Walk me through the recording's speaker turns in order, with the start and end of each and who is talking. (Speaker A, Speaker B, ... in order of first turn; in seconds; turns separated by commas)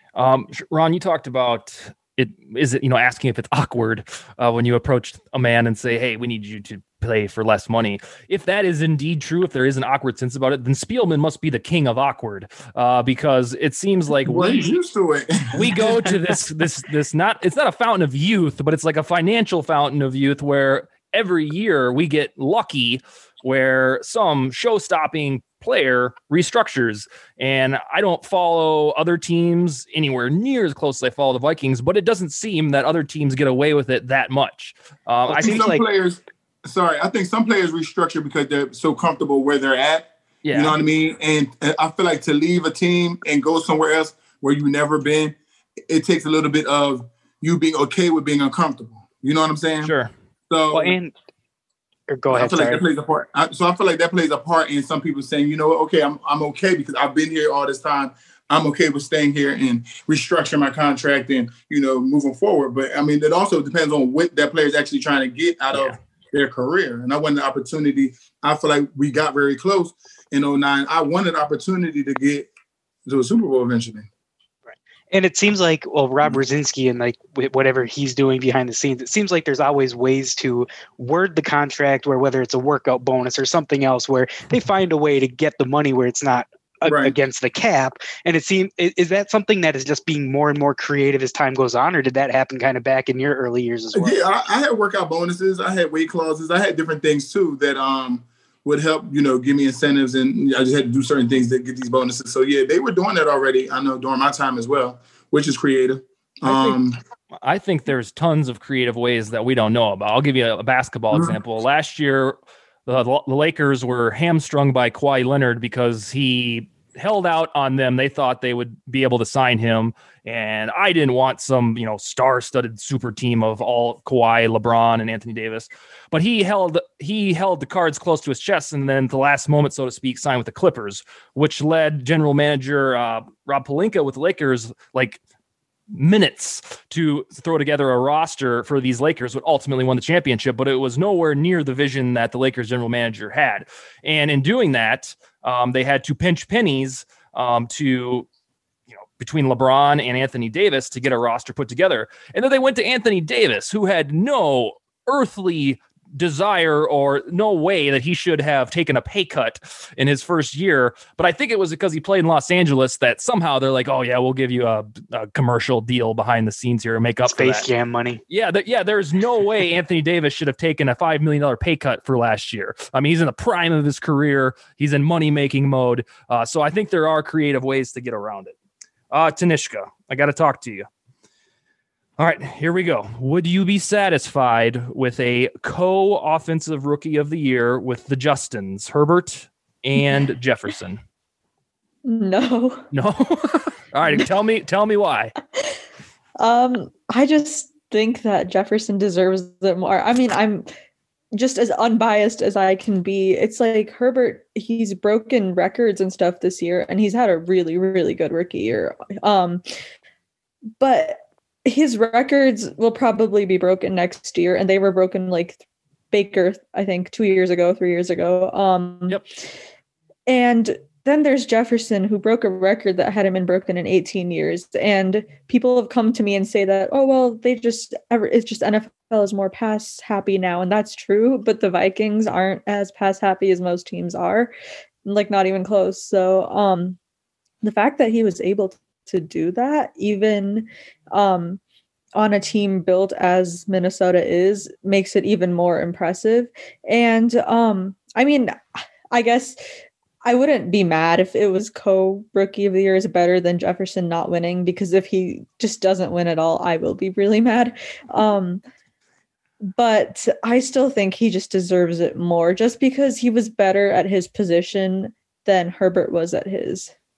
Speaker A: 0.1-14.7, Speaker B: 14.2-15.8, Speaker A: 15.5-35.7, Speaker C: 35.3-35.8, Speaker B: 35.4-49.9, Speaker A: 40.4-40.8, Speaker A: 49.8-50.1, Speaker B: 50.5-51.0, Speaker C: 50.7-51.1, Speaker C: 52.1-52.8, Speaker B: 52.3-72.5, Speaker B: 73.0-74.1, Speaker C: 75.1-94.2, Speaker B: 86.8-87.1, Speaker B: 93.9-107.0, Speaker A: 106.5-106.8, Speaker A: 107.4-112.3, Speaker A: 112.9-135.2, Speaker A: 135.9-148.3, Speaker A: 148.9-167.7, Speaker C: 167.2-168.2, Speaker A: 168.3-178.5, Speaker A: 179.1-180.9, Speaker A: 182.2-191.0, Speaker D: 192.0-192.9, Speaker A: 192.9-195.3, Speaker D: 196.4-200.7, Speaker D: 201.3-209.6, Speaker D: 210.8-215.6, Speaker D: 216.1-219.2, Speaker D: 220.3-234.5, Speaker D: 235.0-237.0, Speaker D: 237.6-241.6, Speaker D: 242.1-249.6, Speaker D: 250.2-258.6, Speaker D: 259.7-266.9